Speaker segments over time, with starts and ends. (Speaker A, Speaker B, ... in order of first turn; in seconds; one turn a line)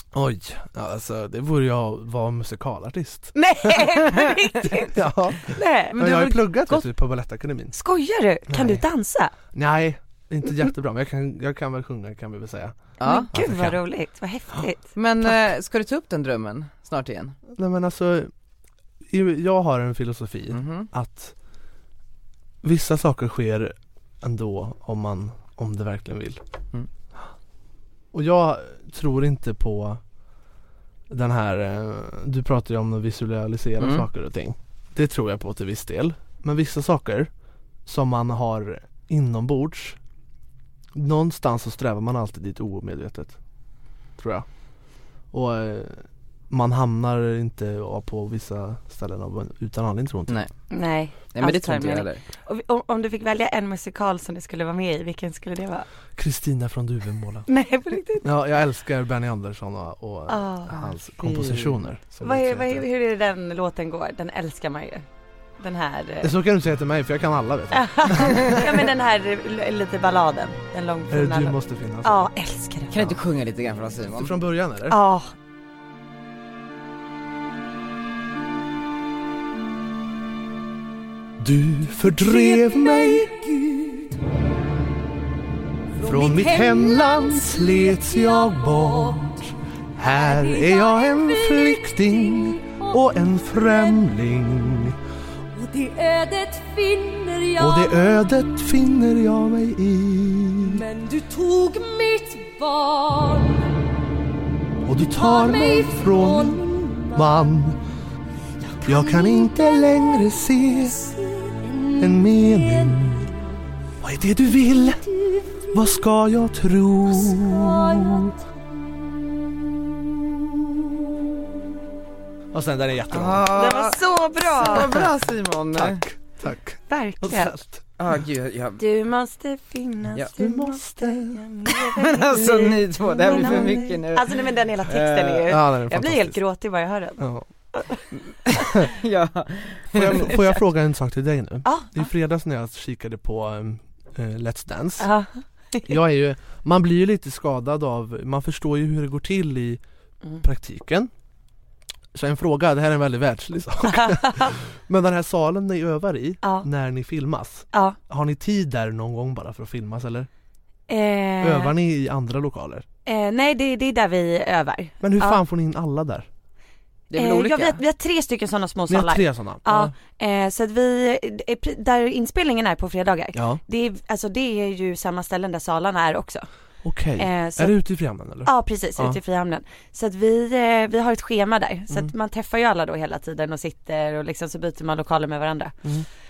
Speaker A: 0.1-3.9
Speaker B: 3.4-6.8
Speaker A: 4.6-7.8
Speaker C: 6.0-6.3
Speaker B: 7.7-9.3
Speaker A: 8.5-8.8
Speaker A: 9.5-12.8
Speaker C: 13.0-13.3
Speaker B: 13.0-14.9
Speaker A: 13.3-13.8
Speaker C: 14.9-17.4
Speaker A: 17.6-18.3
Speaker A: 19.1-21.3
Speaker C: 20.5-20.9
Speaker A: 22.6-26.4
Speaker A: 28.1-30.0
Speaker A: 31.1-37.3
Speaker C: 33.8-34.1
Speaker A: 37.9-40.0
Speaker A: 41.0-43.4
Speaker A: 44.2-44.5
Speaker A: 45.3-50.4
Speaker B: 50.7-55.9
Speaker C: 51.3-52.2
Speaker A: 56.2-57.5
Speaker B: 57.5-58.3
Speaker A: 58.2-62.8
Speaker B: 60.3-60.8
Speaker C: 61.3-61.6
Speaker B: 62.2-65.0
Speaker B: 65.6-66.3
Speaker A: 66.2-68.7
Speaker B: 67.7-72.9
Speaker A: 71.1-72.3
Speaker C: 72.9-74.4
Speaker A: 74.2-75.0
Speaker B: 74.9-75.3
Speaker A: 81.4-83.3
Speaker D: 82.0-84.1
Speaker D: 86.0-89.3
Speaker A: 86.0-95.0
Speaker D: 90.1-94.0
Speaker D: 95.5-98.2
Speaker A: 97.6-100.8
Speaker D: 100.6-103.7
Speaker A: 104.9-107.8
Speaker D: 105.0-107.5
Speaker D: 108.8-113.2
Speaker A: 108.8-111.0
Speaker A: 112.0-113.3
Speaker A: 114.0-115.0
Speaker D: 114.7-116.0
Speaker A: 115.7-118.3
Speaker D: 117.1-118.4
Speaker A: 122.5-123.6
Speaker C: 123.1-126.0
Speaker B: 123.5-125.0
Speaker A: 125.8-127.8
Speaker B: 126.9-127.5
Speaker C: 128.0-128.8
Speaker B: 128.8-137.2
Speaker A: 130.4-131.5
Speaker C: 131.8-135.5
Speaker A: 133.3-133.8
Speaker A: 135.5-136.4
Speaker A: 137.2-137.5
Speaker B: 137.7-138.0
Speaker C: 138.8-140.2
Speaker A: 139.9-145.1
Speaker B: 141.7-142.1
Speaker B: 145.0-146.0
Speaker A: 145.9-149.8
Speaker A: 150.4-151.1
Speaker A: 152.1-160.3
Speaker B: 156.4-156.7
Speaker B: 160.9-161.7
Speaker A: 161.4-162.8
Speaker B: 163.1-165.4
Speaker A: 165.0-166.3
Speaker C: 167.1-167.8
Speaker B: 167.1-176.5
Speaker A: 168.9-169.9
Speaker A: 173.3-173.6
Speaker A: 176.8-179.2
Speaker B: 177.2-177.8
Speaker B: 178.4-185.8